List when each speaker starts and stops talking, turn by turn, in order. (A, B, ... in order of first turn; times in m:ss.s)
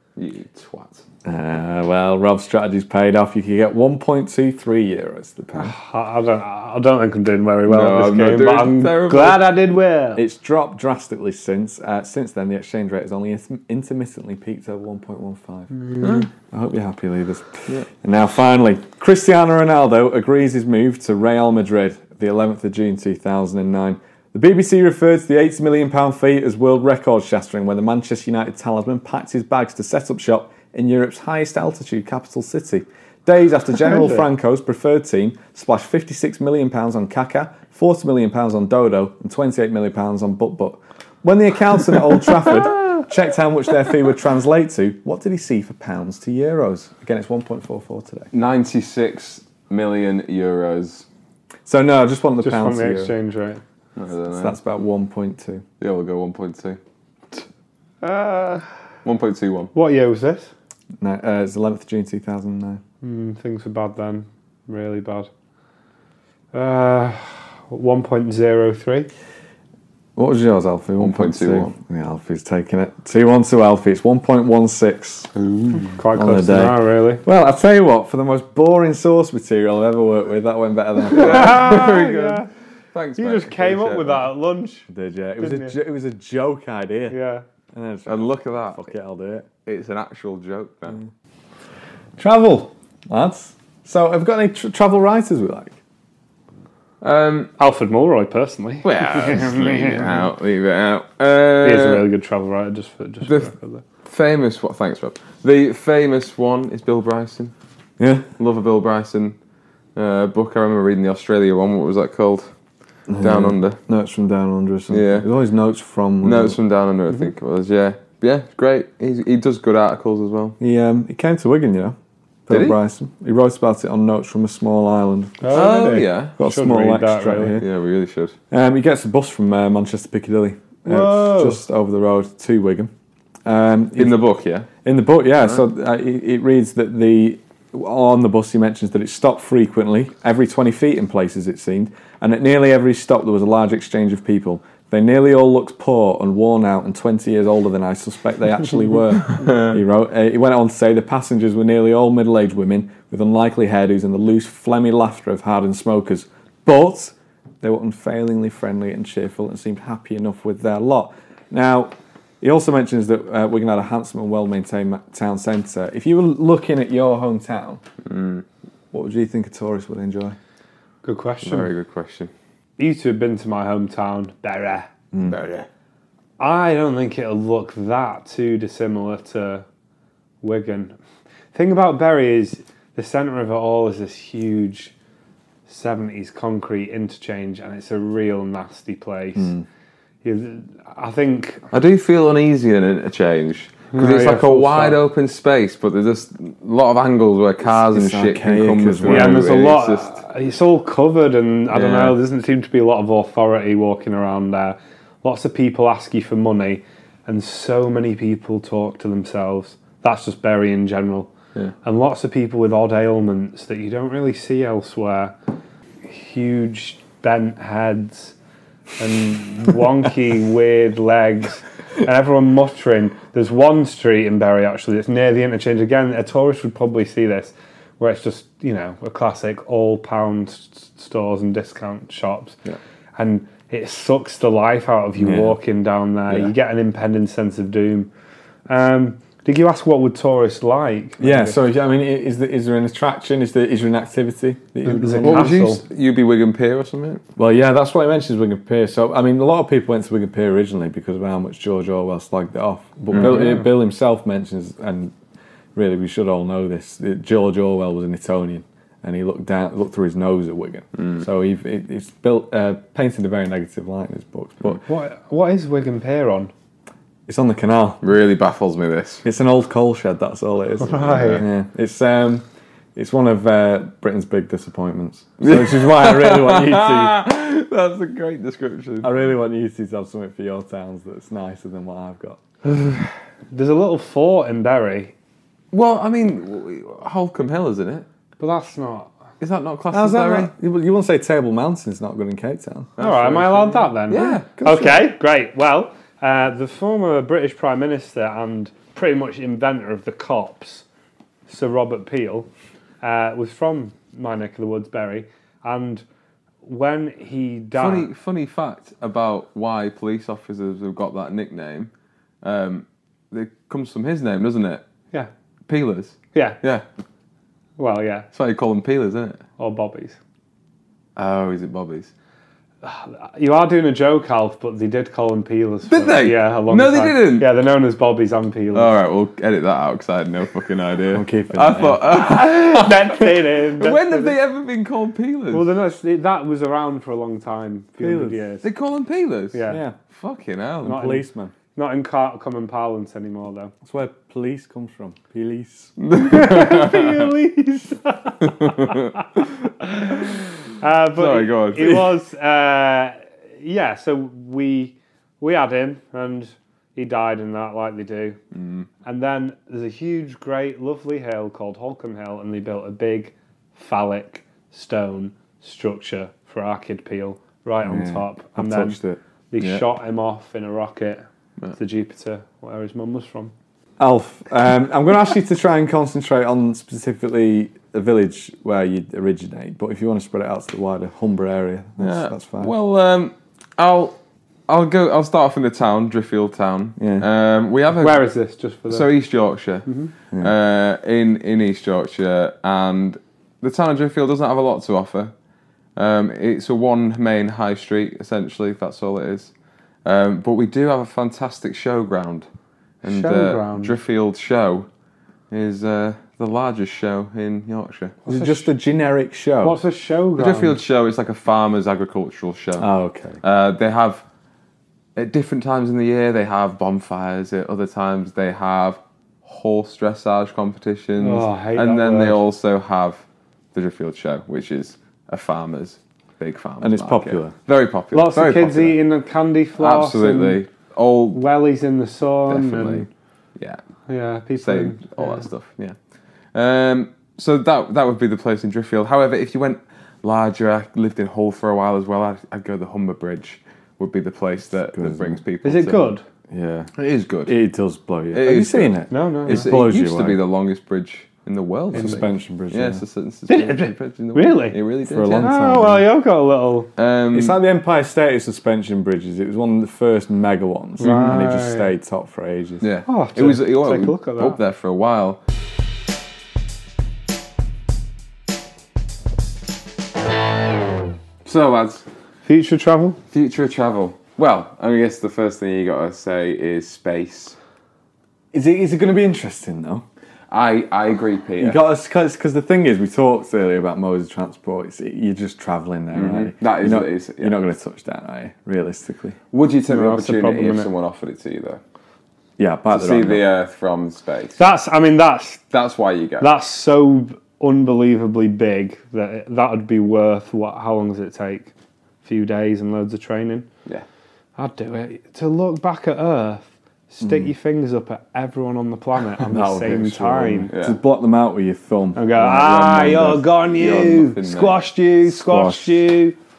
0:00.2-0:01.0 A
0:01.2-0:05.7 B
0:05.5-0:10.2 C
0:07.7-0:09.5 A
0:10.2-0:15.7 B
0:15.8-0:16.1 C
0:16.0-0:16.3 A
0:16.4-0:48.3 B
0:33.9-0:34.2 C
0:48.3-0:51.0 A
0:51.6-0:53.1 B
0:52.4-0:53.6 C
0:54.0-0:54.6 A
0:54.3-0:55.6 B
0:55.8-0:56.8 A
0:58.0-0:58.7 C
0:59.0-0:59.7 A
0:59.7-1:00.5 C
1:01.0-1:02.8 B
1:03.0-1:05.3 C
1:06.5-1:09.1 C
1:10.2-1:15.3 B
1:11.0-1:11.7 A
1:15.4-1:15.9 A
1:15.8-1:17.2 C
1:16.1-1:21.7 B
1:21.1-1:24.2 A
1:21.1-1:22.5 C
1:23.2-1:24.9 C
1:24.9-1:27.2 B
1:25.4-1:25.7 C
1:27.1-1:27.4 C
1:27.7-1:29.5 B
1:28.1-1:28.9 A
1:29.6-1:31.0 A
1:32.2-1:35.8 B
1:37.0-1:37.5 A
1:37.6-1:40.2 C
1:38.8-1:42.0 A
1:41.6-1:43.8 C
1:43.2-1:43.5 A
1:44.0-1:47.5 A
1:48.0-1:48.3 B
1:48.4-1:49.4 A
1:49.9-1:52.5 A
1:53.1-1:56.6 B
1:53.2-1:53.8 A
1:54.9-1:55.3 A
1:56.2-2:00.6 A
2:00.6-2:02.0 B
2:02.5-2:07.6 B
2:02.5-2:02.8 A
2:05.4-2:07.6 C
2:05.5-2:06.3 A
2:07.6-2:08.3 A
2:08.5-2:12.9 B
2:10.8-2:11.6 C
2:13.4-2:14.2 B
2:14.0-2:14.7 A
2:14.8-2:47.8 B
2:29.4-2:29.8 A
2:48.0-2:48.4 A
2:48.9-2:50.4 B
2:51.0-2:51.7 C
2:51.4-2:52.3 A
2:52.8-2:54.9 C
2:55.2-2:55.7 A
2:56.4-2:59.6 C
3:00.4-3:01.0 C
3:01.5-3:04.9 C
3:05.7-3:09.6 C
3:09.4-3:09.6 B
3:10.2-3:11.6 C
3:11.7-3:20.2 A
3:13.9-3:15.0 C
3:17.6-3:19.5 B
3:19.0-3:31.3 C
3:21.7-3:22.2 A
3:31.8-3:35.3 C
3:36.0-3:38.3 C
3:39.0-3:52.6 C
3:53.2-3:58.1 C
3:55.2-3:55.6 B
3:58.7-4:01.6 C
4:01.2-4:05.5 B
4:04.8-4:05.8 C
4:05.2-4:07.2 A
4:07.4-4:15.1 B
4:13.1-4:13.4 A
4:13.2-4:13.6 C
4:15.7-4:24.8 B
4:21.0-4:21.2 A
4:24.8-4:26.5 C
4:27.3-4:28.0 B
4:28.0-4:29.2 A
4:29.2-4:37.2 B
4:30.8-4:31.4 C
4:31.0-4:31.4 A
4:35.4-4:39.1 A
4:39.0-4:42.4 B
4:43.5-4:45.1 C
4:45.7-4:48.0 A
4:48.4-4:49.1 C
4:49.4-4:50.5 A
4:49.9-4:52.9 B
4:53.0-4:54.5 A
4:53.0-5:00.8 C
4:54.6-4:55.1 B
5:01.5-5:02.5 C
5:03.0-5:06.0 C
5:06.6-5:08.1 C
5:07.8-5:11.9 A
5:12.4-5:14.8 A
5:15.7-5:16.8 A
5:16.3-5:16.6 C
5:17.8-5:18.3 C
5:18.3-5:19.4 A
5:19.6-5:20.2 C
5:21.2-5:22.1 A
5:22.8-5:28.9 C
5:25.9-5:27.5 A
5:28.7-5:35.7 A
5:31.1-5:32.1 B
5:32.2-5:34.3 C
5:35.5-5:38.6 C
5:38.0-5:38.4 B
5:38.6-5:41.0 A
5:39.5-5:39.8 C
5:39.7-5:40.0 B
5:40.8-5:41.5 B
5:40.8-5:41.2 C
5:41.7-5:43.7 C
5:43.8-5:46.0 B
5:46.0-5:47.3 A
5:46.2-5:58.4 C
5:48.4-5:49.4 A
5:51.2-5:52.1 A
5:58.5-5:58.9 A
5:59.0-6:09.0 C
6:07.8-6:09.2 B
6:09.5-6:11.2 C
6:11.8-6:13.5 C
6:14.0-6:22.7 B
6:22.0-6:24.2 A
6:24.7-6:28.2 A
6:27.0-6:27.3 B
6:28.0-6:29.1 C
6:28.9-6:35.3 A
6:36.0-6:39.5 A
6:40.0-6:42.5 A
6:43.0-6:44.9 A
6:43.0-6:43.9 C
6:45.5-6:48.2 A
6:48.2-6:48.7 C
6:48.3-6:49.8 B
6:49.6-6:50.8 C
6:50.4-6:52.9 A
6:52.8-6:53.4 B
6:53.4-6:54.2 A
6:55.2-7:09.0 A
7:01.2-7:02.4 C
7:06.8-7:07.5 B
7:08.1-7:10.6 C
7:09.8-7:11.4 A
7:11.3-7:13.1 C
7:12.5-7:13.1 A
7:14.1-7:15.4 C
7:14.6-7:16.0 A
7:16.5-7:26.1 A
7:24.9-7:25.3 B
7:25.6-7:26.2 C
7:26.5-7:26.9 B
7:27.0-7:27.5 A
7:27.5-7:30.4 B
7:28.3-7:35.5 A
7:29.1-7:29.8 C
7:31.9-7:33.0 B
7:33.5-7:36.9 C
7:35.0-7:36.0 B
7:37.0-7:37.6 A
7:37.3-7:42.8 B
7:41.0-7:41.4 A
7:41.0-7:41.9 C
7:42.8-7:45.4 A
7:43.1-7:44.6 C
7:51.4-7:52.0 A
7:52.4-7:53.2 C
7:53.3-7:57.6 A
7:58.5-8:00.0 B
8:00.5-8:01.8 A
8:01.6-8:09.4 B
8:06.1-8:07.6 A
8:09.5-8:11.8 A
8:09.9-8:10.9 C
8:12.6-8:13.4 B
8:12.9-8:14.6 A
8:14.6-8:15.6 C
8:15.7-8:16.5 A
8:16.4-8:21.7 C
8:22.2-8:23.7 C
8:24.6-8:30.7 C
8:27.2-8:27.5 B
8:29.4-8:33.5 B
8:30.7-8:31.0 A
8:32.2-8:36.4 C
8:33.7-8:34.8 A
8:35.3-8:36.0 B